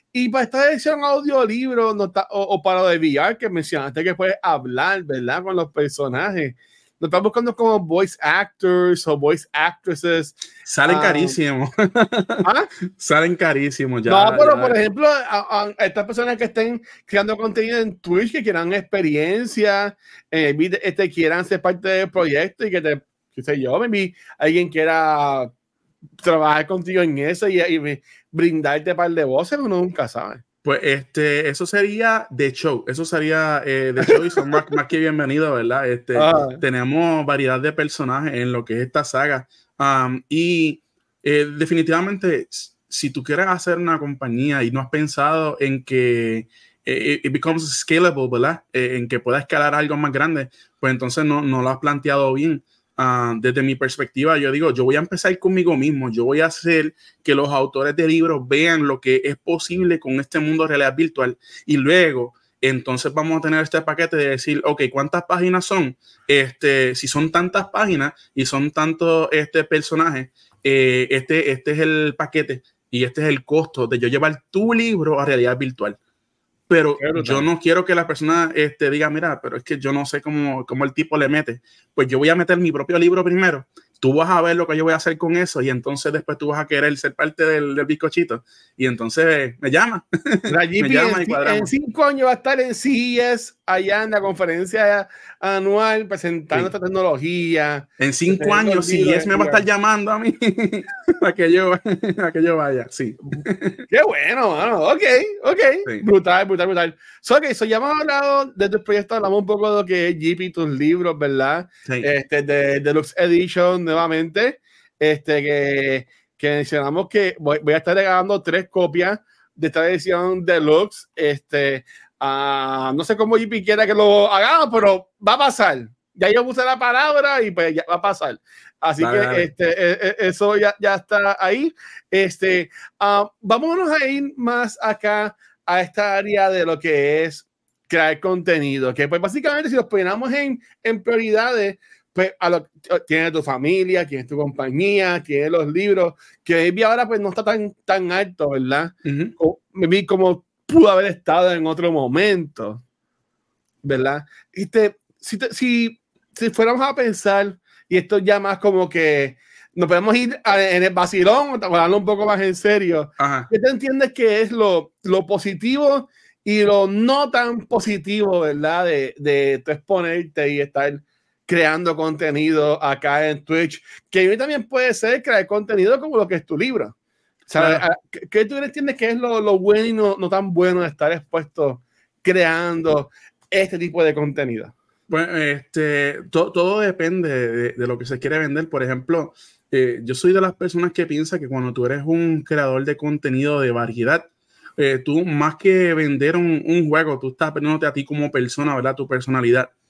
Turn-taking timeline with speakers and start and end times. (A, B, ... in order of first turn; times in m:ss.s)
0:00.1-0:11.4 A
0:10.7-0:12.5 B
0:12.4-0:12.7 A
0:13.0-0:14.8 B
0:14.1-0:25.5 A
0:26.2-0:30.4 A
0:30.6-1:16.0 B
0:34.0-0:34.6 A
0:36.2-0:36.6 A
1:16.7-1:31.7 B
1:17.0-1:17.5 A
1:30.5-1:39.6 A
1:38.0-1:43.9 B
1:43.9-2:32.8 A
2:09.0-2:09.5 B
2:29.0-2:29.3 B
2:33.8-2:57.0 A
2:43.2-2:43.5 B
2:57.5-3:04.7 A
2:57.6-2:57.8 B
3:05.1-3:19.7 B